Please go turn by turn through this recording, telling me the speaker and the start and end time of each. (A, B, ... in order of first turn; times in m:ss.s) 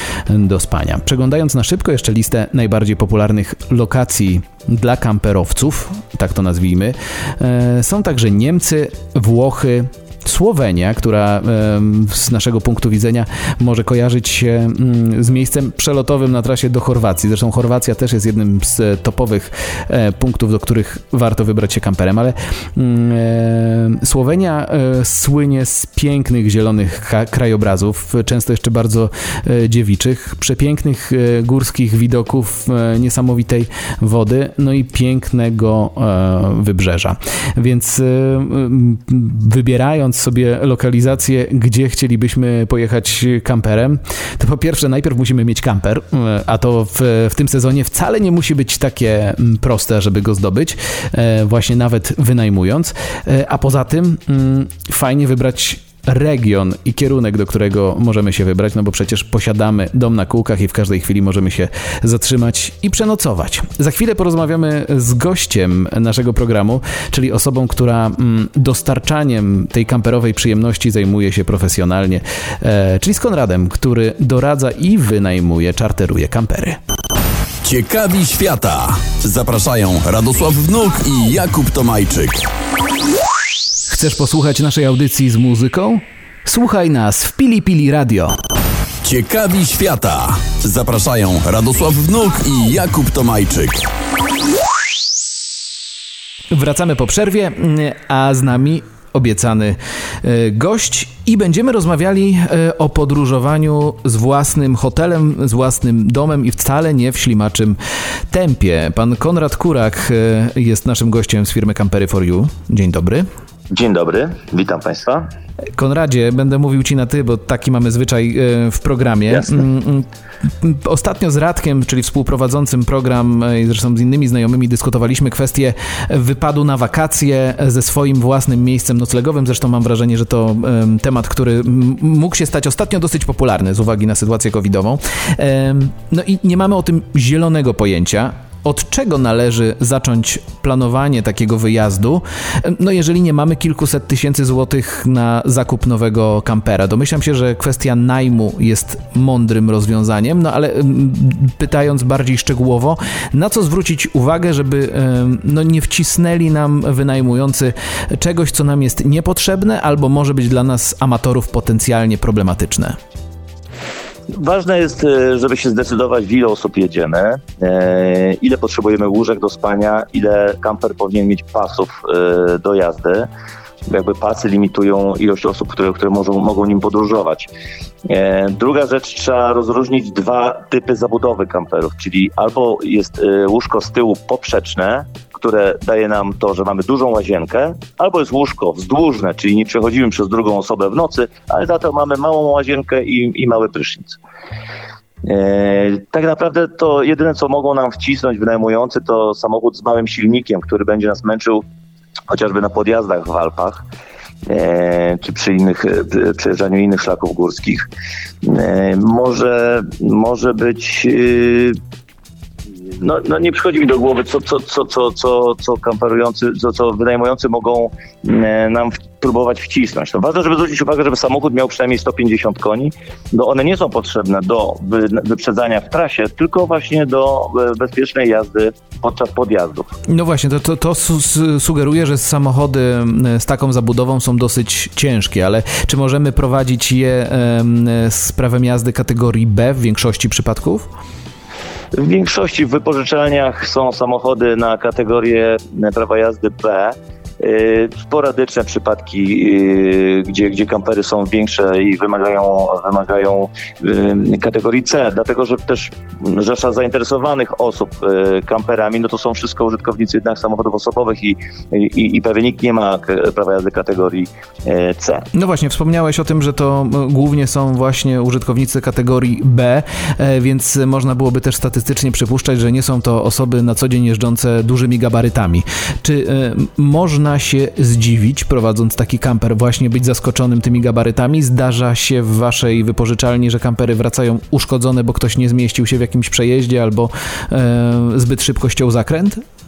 0:00.3-1:16.8 A
1:17.6-1:22.4 B
1:23.9-1:28.4 A
1:29.0-1:33.9 B
1:36.5-1:47.8 A
1:48.3-1:53.3 A
1:53.7-1:55.3 C
1:55.8-2:43.0 A
1:59.3-1:59.6 C
2:44.3-2:53.3 C
2:53.9-2:57.5 C
2:58.1-3:14.2 C
3:15.2-3:21.6 C
3:22.3-3:23.8 C
3:24.5-3:27.9 C
3:28.4-3:31.8 C
3:33.0-3:49.9 C
3:50.1-4:00.9 A
4:01.9-4:25.3 C
4:25.3-4:49.4 A